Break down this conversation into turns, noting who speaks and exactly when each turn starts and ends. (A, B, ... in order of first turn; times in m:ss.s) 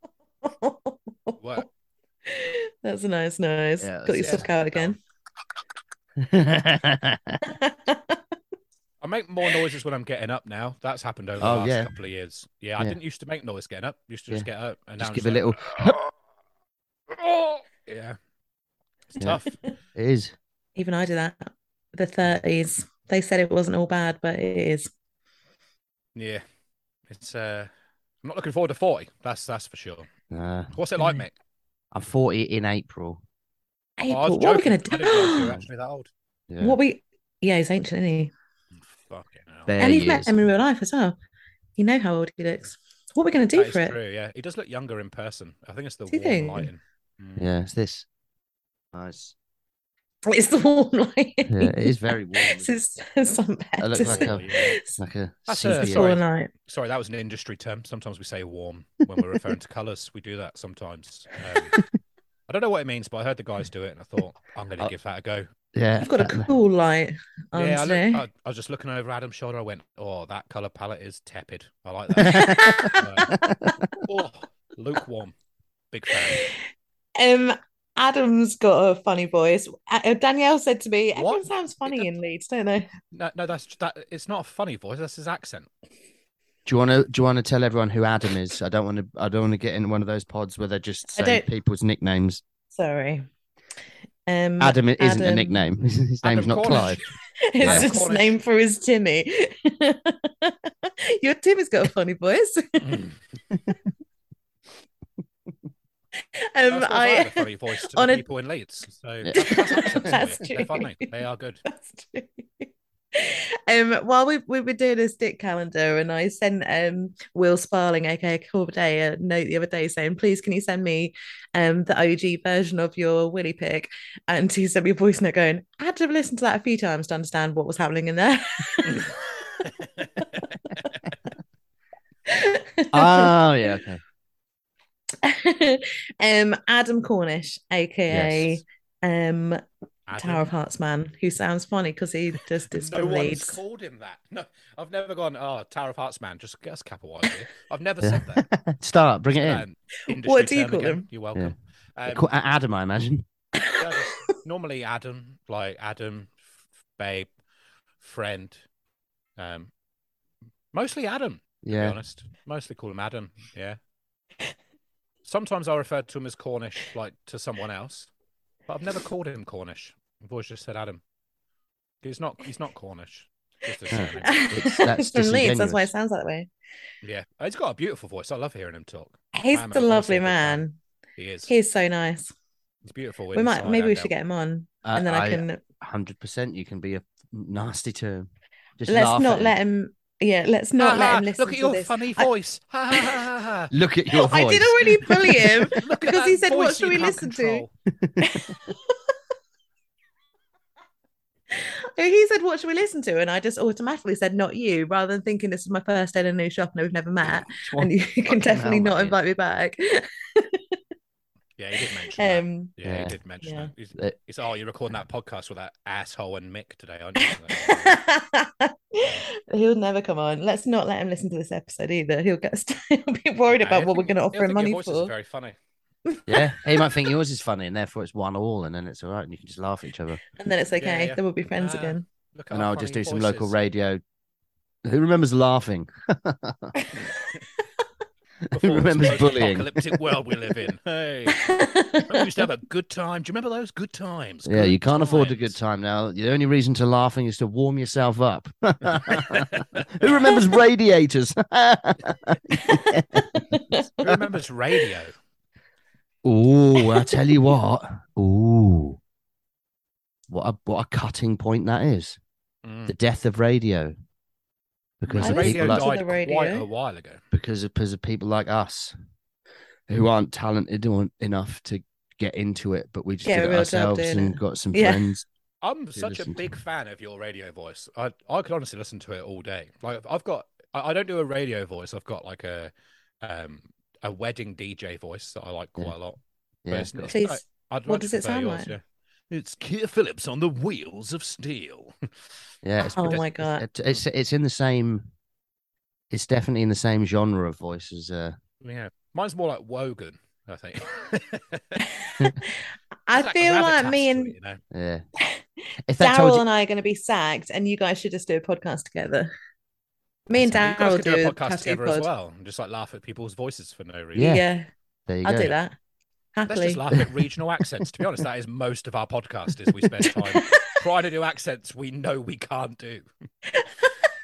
0:00.4-0:01.6 A
0:01.4-0:01.7 B
0:02.3-0:05.0 A
0:03.8-0:04.9 C
0:06.2-0:07.4 C
0:07.4-0:08.2 A
0:09.0-0:16.0 B
0:11.4-0:11.9 C
0:15.0-0:16.0 C
0:17.1-0:18.2 B
0:19.1-0:19.5 B
0:19.9-0:20.3 C
0:20.8-0:24.9 A
0:26.2-0:26.4 B
0:27.1-0:27.7 B
0:28.2-0:30.1 B
0:30.3-0:30.7 C
0:30.7-0:31.4 B
0:31.9-0:33.2 C
0:34.0-0:35.6 A
0:34.1-0:36.1 B
0:36.5-0:36.8 C
0:36.6-0:38.3 A
0:38.8-0:39.7 B
0:39.7-0:40.3 C
0:39.8-0:41.1 A
0:41.8-0:44.0 A
0:43.5-0:47.4 B
0:46.1-0:46.7 A
0:47.4-0:48.0 C
0:48.9-0:49.3 C
0:50.2-0:54.9 A
0:51.5-0:52.7 C
0:53.8-0:56.1 C
0:54.0-0:54.7 B
0:55.5-1:01.8 B
0:55.7-0:56.5 A
1:02.5-1:05.5 B
1:05.7-1:06.5 C
1:06.0-1:08.2 A
1:07.5-1:13.3 B
1:12.2-1:13.7 C
1:12.3-1:13.0 A
1:14.0-1:15.3 B
1:15.9-1:16.4 B
1:16.3-1:16.5 A
1:17.2-1:22.9 A
1:21.1-1:22.1 B
1:23.1-1:25.7 B
1:26.6-1:32.4 C
1:31.1-1:31.5 A
1:32.7-1:33.3 A
1:34.3-1:35.7 A
1:34.6-1:37.0 C
1:36.2-1:37.0 B
1:36.7-1:43.0 A
1:37.6-1:38.3 B
1:37.6-1:37.9 C
1:42.8-1:43.1 B
1:46.4-1:48.2 A
1:46.6-1:51.6 B
1:49.2-1:50.1 C
1:49.4-1:51.1 A
1:51.6-2:09.7 A
2:12.3-2:13.3 A
2:12.9-2:14.0 C
2:15.2-2:19.6 A
2:18.1-2:18.6 C
2:20.1-2:20.5 B
2:20.2-2:23.6 A
2:22.7-2:28.4 B
2:28.0-2:29.6 C
2:29.3-2:32.3 B
2:30.1-2:31.0 A
2:32.0-2:33.2 C
2:33.8-2:36.4 B
2:37.0-2:37.3 B
2:38.0-2:38.6 B
2:39.4-2:39.7 B
2:40.7-2:43.8 B
2:41.6-2:42.0 C
2:45.2-2:48.1 B
2:48.7-2:51.0 B
2:52.0-2:54.5 B
2:53.9-2:55.9 C
2:54.2-2:56.5 A
2:57.0-3:00.6 B
2:59.3-3:00.8 A
3:01.2-3:01.5 B
3:01.5-3:02.3 A
3:02.8-3:04.1 B
3:03.3-3:05.6 A
3:04.8-3:08.3 C
3:08.8-3:09.5 C
3:08.9-3:12.3 A
3:10.8-3:13.7 B
3:12.9-3:13.2 A
3:13.7-3:15.6 C
3:14.1-3:17.6 A
3:15.7-3:17.7 B
3:18.2-3:18.7 A
3:21.5-3:30.6 A
3:27.2-3:29.2 C
3:31.6-3:38.0 B
3:32.2-3:32.7 A
3:32.8-3:33.1 C
3:33.4-3:33.7 A
3:37.5-3:45.1 A
3:43.5-3:45.6 B
3:46.3-3:50.2 C
3:50.4-3:52.0 A
3:50.8-3:53.5 B
3:52.5-3:54.0 C
3:54.8-3:56.7 C
3:58.5-4:01.5 B
3:58.5-3:59.7 C
4:01.3-4:02.3 A
4:02.1-4:05.5 B
4:04.4-4:13.2 C
4:09.3-4:10.3 B
4:12.7-4:13.8 A
4:14.0-4:15.1 B
4:16.2-4:19.0 C
4:20.3-4:22.2 C
4:22.6-4:22.9 B
4:22.9-4:23.9 C
4:25.0-4:25.8 C
4:25.0-4:27.2 B
4:25.2-4:26.6 A
4:27.3-4:28.9 C
4:29.9-4:35.2 C
4:33.2-4:35.1 A
4:35.6-4:42.7 B
4:36.0-4:36.5 C
4:43.2-4:46.2 B
4:46.6-4:47.1 C
4:46.7-4:52.0 B
4:47.1-4:48.7 A
4:52.6-4:55.1 C
4:53.0-4:53.6 A
4:56.1-4:58.4 C
4:58.6-5:01.8 B
5:03.1-5:04.3 A
5:03.1-5:04.6 B
5:04.7-5:05.0 C
5:05.9-5:06.4 C
5:06.0-5:09.3 A
5:10.3-5:12.1 A
5:10.4-5:14.4 B
5:14.1-5:14.4 C
5:14.2-5:14.7 A
5:15.1-5:15.5 C
5:15.2-5:15.7 A
5:16.3-5:16.8 A
5:16.5-5:23.0 B
5:20.0-5:20.7 A
5:23.6-5:23.9 A